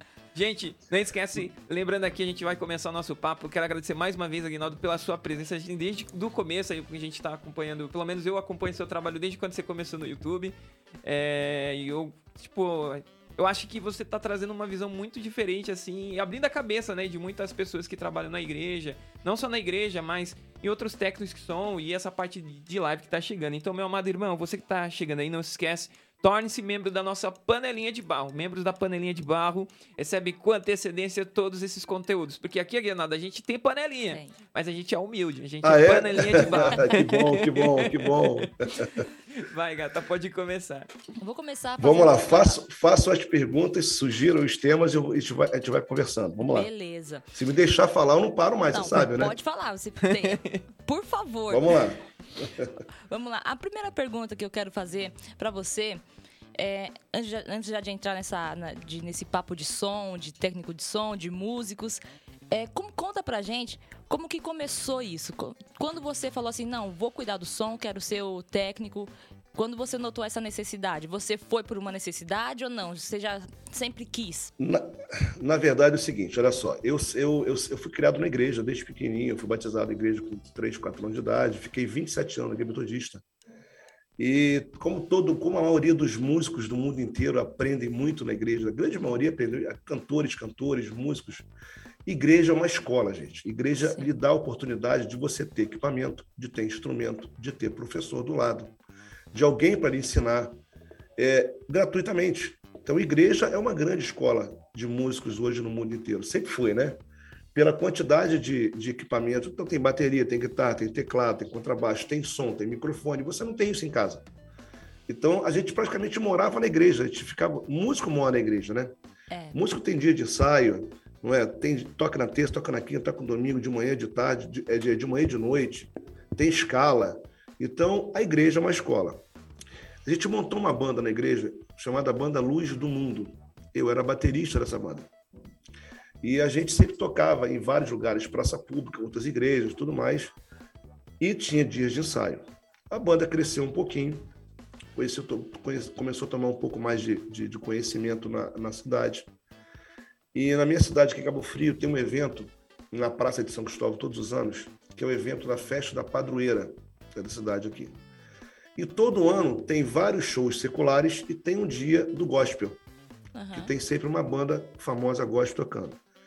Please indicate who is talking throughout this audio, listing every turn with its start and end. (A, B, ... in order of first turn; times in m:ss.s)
0:00.3-0:40.9 A
0:34.1-0:34.4 B
0:35.6-0:39.1 C
0:36.4-0:36.8 B
0:41.2-0:42.6 B
0:41.8-0:46.7 C
0:46.4-0:47.3 B
0:47.3-0:49.4 C
0:48.7-0:51.8 B
0:50.0-0:50.6 A
0:51.5-0:52.8 C
0:53.1-0:56.0 B
0:56.6-1:14.5 B
1:14.6-1:23.2 C
1:24.2-1:31.5 C
1:32.1-1:38.7 C
1:33.8-1:34.1 B
1:39.3-1:40.6 C
1:41.2-1:47.0 C
1:47.5-1:54.3 C
1:55.1-1:58.9 C
1:59.3-1:59.6 B
1:59.5-2:09.2 C
2:10.0-2:15.1 C
2:16.2-2:20.4 C
2:21.2-2:24.3 C
2:25.0-2:29.3 C
2:30.3-2:38.0 C
2:38.8-2:42.8 C
2:43.4-2:43.7 B
2:43.5-2:46.0 C